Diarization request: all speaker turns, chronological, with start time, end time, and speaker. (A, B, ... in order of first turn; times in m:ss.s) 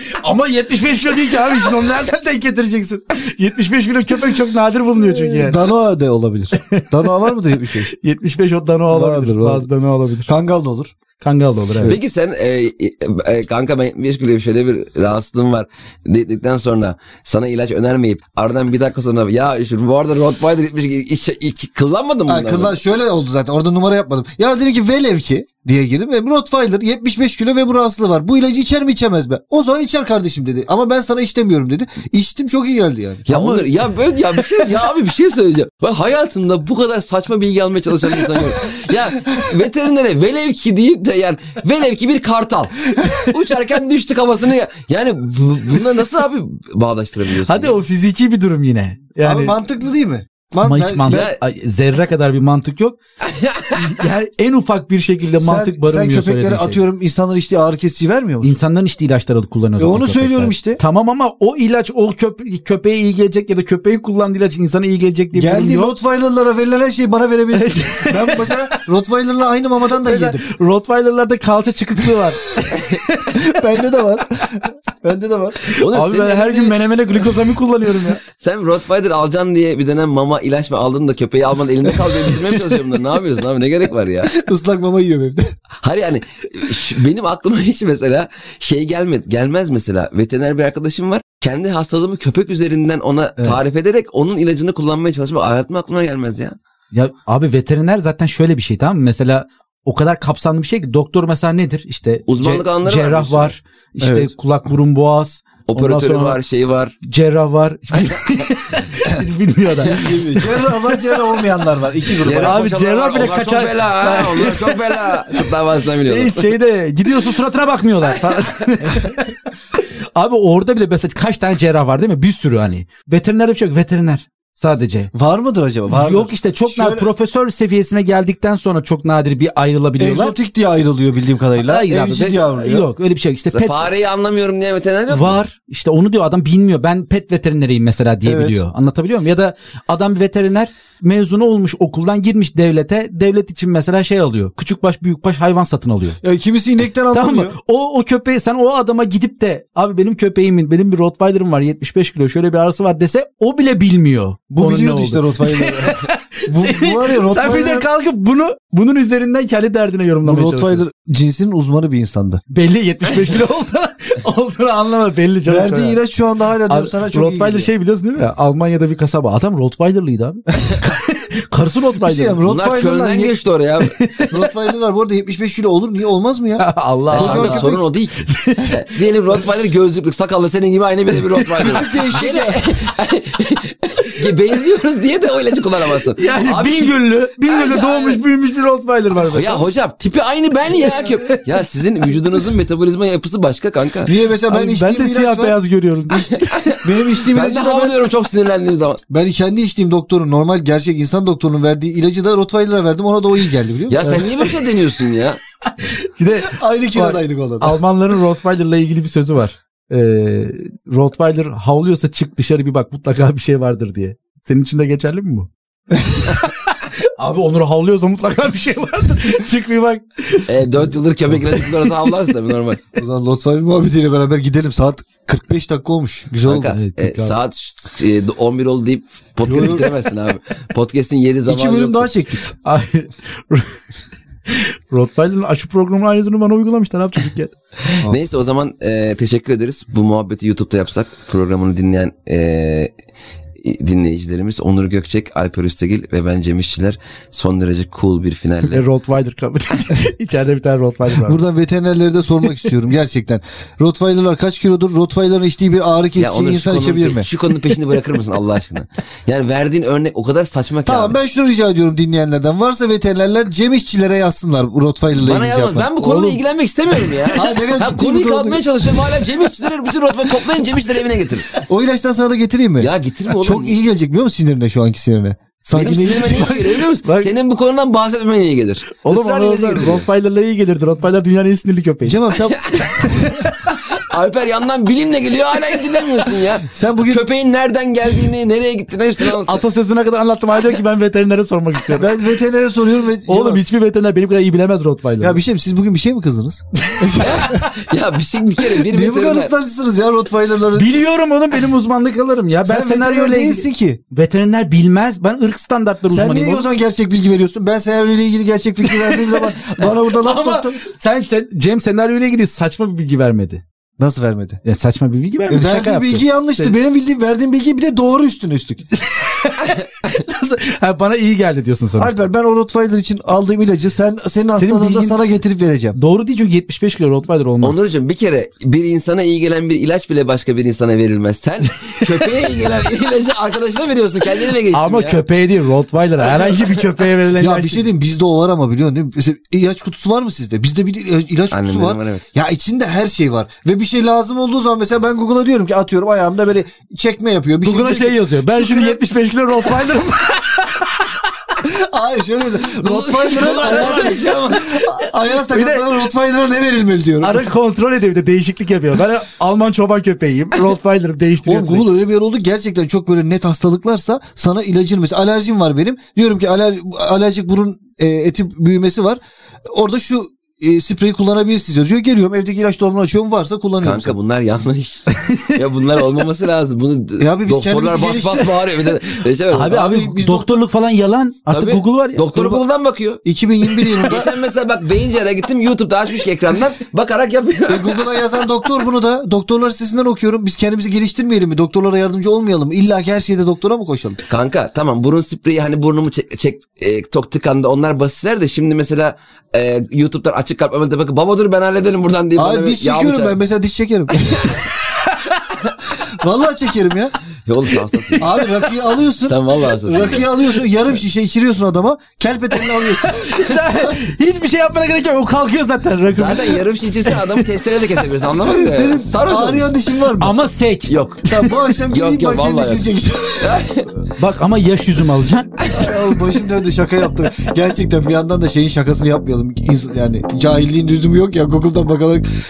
0:00.2-0:05.6 A
0:05.0-0:07.9 B
0:06.6-0:07.1 A
0:07.9-0:10.3 A
0:08.9-0:09.7 B
0:10.3-0:10.9 B
0:11.2-0:12.0 A
0:11.7-0:12.0 B
0:11.8-0:22.8 C
0:22.3-0:33.6 B
0:33.3-0:47.8 C
0:33.3-0:33.6 A
0:47.4-0:49.6 A
0:49.2-0:51.3 B
0:50.6-0:53.0 A
0:51.1-0:51.4 C
0:53.3-0:53.8 C
0:53.7-0:56.8 A
0:55.4-0:58.6 B
0:58.4-1:05.9 A
0:59.8-1:00.8 B
1:05.3-1:10.4 B
1:07.5-1:08.8 A
1:10.0-1:13.4 A
1:13.3-1:15.6 B
1:15.6-1:18.2 A
1:15.7-1:16.8 C
1:18.3-1:24.4 C
1:24.3-1:25.5 B
1:25.8-1:36.6 C
1:36.9-1:46.4 A
1:42.3-1:43.5 C
1:44.0-1:44.3 B
1:45.7-1:47.0 C
1:47.0-1:51.2 A
1:48.0-1:48.4 C
1:49.9-1:52.7 B
1:52.2-1:56.6 C
1:52.3-1:55.0 A
1:56.1-1:59.4 A
2:00.2-2:05.1 A
2:05.1-2:07.1 B
2:05.9-2:10.4 A
2:10.0-2:12.9 B
2:11.6-2:13.9 A
2:13.5-2:15.4 C
2:15.1-2:26.2 A
2:18.2-2:18.6 B
2:26.2-2:27.6 B
2:27.1-2:40.8 A
2:34.5-2:37.9 B
2:40.2-2:42.4 B
2:42.5-2:46.0 A
2:45.5-2:47.7 B
2:46.7-2:52.4 A
2:52.0-2:53.3 B
2:52.5-2:54.0 C
2:54.0-2:54.4 A
2:54.3-2:57.8 B
2:56.6-2:58.9 A
2:57.1-3:08.2 C
3:01.3-3:01.8 A
3:01.6-3:02.6 B
3:06.2-3:09.6 A
3:09.3-3:14.1 C
3:14.0-3:15.6 B
3:14.5-3:16.8 A
3:16.1-3:18.0 B
3:16.1-3:19.0 C
3:19.1-3:24.3 B
3:23.9-3:25.4 C
3:24.0-3:24.3 A
3:25.7-3:35.5 A
3:26.4-3:27.8 B
3:36.1-3:40.6 A
3:40.5-3:42.8 C
3:41.4-3:42.1 A
3:43.0-3:46.8 B
3:46.5-3:52.1 C
3:46.7-3:47.4 A
3:49.5-3:49.9 B
3:51.5-3:52.5 B
3:52.6-3:53.8 A
3:54.5-3:57.5 A
3:57.9-4:02.9 C
4:03.6-4:08.8 C
4:08.6-4:11.4 A
4:11.2-4:17.3 B
4:16.2-4:21.2 C
4:20.8-4:25.9 B
4:25.2-4:31.6 C
4:26.0-4:26.4 A
4:27.3-4:29.0 B
4:31.6-4:36.6 B
4:32.8-4:33.8 C
4:35.7-4:40.1 C
4:35.9-4:37.3 A
4:39.0-4:43.6 A
4:42.0-4:43.2 B
4:43.9-4:49.6 C
4:46.6-4:47.3 B
4:49.3-4:52.2 A
4:51.9-4:53.6 B
4:53.3-4:55.4 A
4:55.2-4:57.7 B
4:56.8-4:57.7 A
4:57.2-4:59.5 C
4:58.6-5:01.0 B
5:00.7-5:06.7 A
5:02.6-5:04.0 B
5:06.1-5:10.8 B
5:08.8-5:13.6 A
5:14.0-5:14.6 B
5:14.6-5:16.8 A
5:15.5-5:18.8 B
5:18.9-5:22.2 A
5:22.0-5:26.0 B
5:24.6-5:25.2 A
5:26.0-5:27.8 A
5:27.6-5:35.2 C
5:34.7-5:37.9 A
5:37.4-5:49.0 B
5:41.5-5:42.3 C
5:47.6-5:51.2 A
5:51.6-5:57.5 B
5:52.8-5:54.8 C
5:53.3-5:56.0 A
5:57.2-6:01.9 A
6:01.5-6:14.2 B
6:13.8-6:19.9 C
6:15.1-6:16.1 A
6:17.2-6:18.7 B
6:19.5-6:22.6 A
6:19.7-6:20.6 B
6:21.5-6:23.2 C
6:23.2-6:24.3 B
6:24.0-6:28.2 C
6:27.7-6:34.2 B
6:34.3-6:43.4 C
6:42.4-6:44.3 B
6:44.2-6:44.6 C
6:44.8-6:45.5 A
6:46.1-6:47.1 B
6:47.5-6:48.3 C
6:47.7-6:48.7 A
6:48.2-6:54.0 B
6:49.2-6:50.3 C
6:52.8-6:57.4 A
6:56.1-6:59.7 C
6:58.3-7:00.4 B
7:00.2-7:01.6 A
7:00.9-7:01.2 C
7:01.3-7:03.7 B
7:01.9-7:03.9 C
7:04.2-7:05.9 A
7:05.7-7:12.3 B